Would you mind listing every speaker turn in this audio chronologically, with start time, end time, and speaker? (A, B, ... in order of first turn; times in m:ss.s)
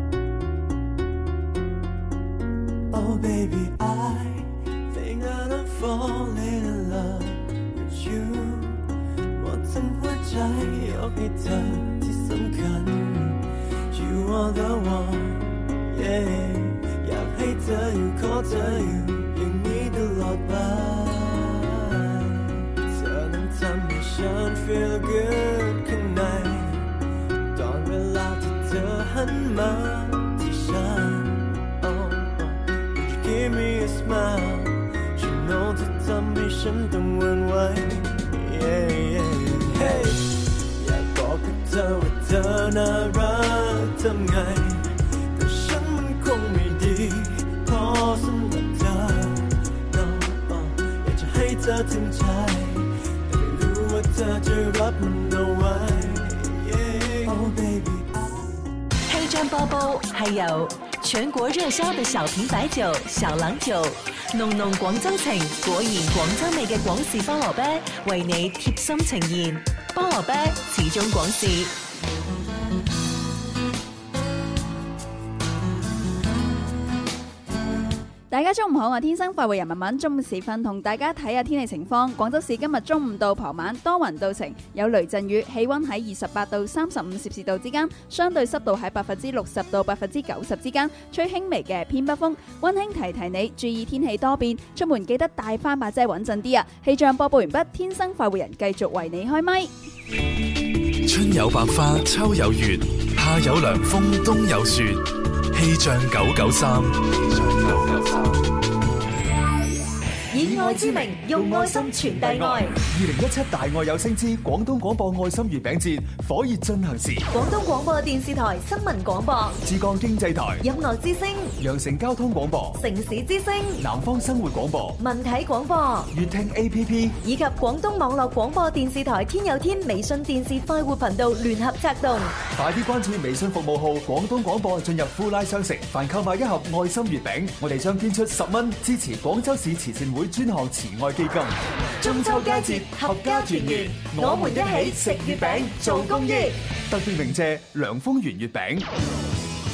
0:02.9-0:08.8 A
0:09.3-0:13.4 A
0:13.9-0:26.9 A
0:27.5-0:40.2 A
0:40.8-0:58.2 A
0:59.1-1:11.7 B
1:18.3-1:39.7 C
1:41.0-1:48.2 D
1:50.3-1:52.7 B
1:50.4-1:57.2 E
1:57.3-1:59.6 B
1:59.6-2:00.6 E
2:00.6-2:01.5 B
2:01.6-2:02.8 E
2:02.8-2:03.8 B
2:03.8-2:05.0 E
2:05.0-2:06.1 B
2:06.1-2:07.2 E
2:07.2-2:12.3 B
2:12.5-2:28.9 E
2:22.0-2:26.6 B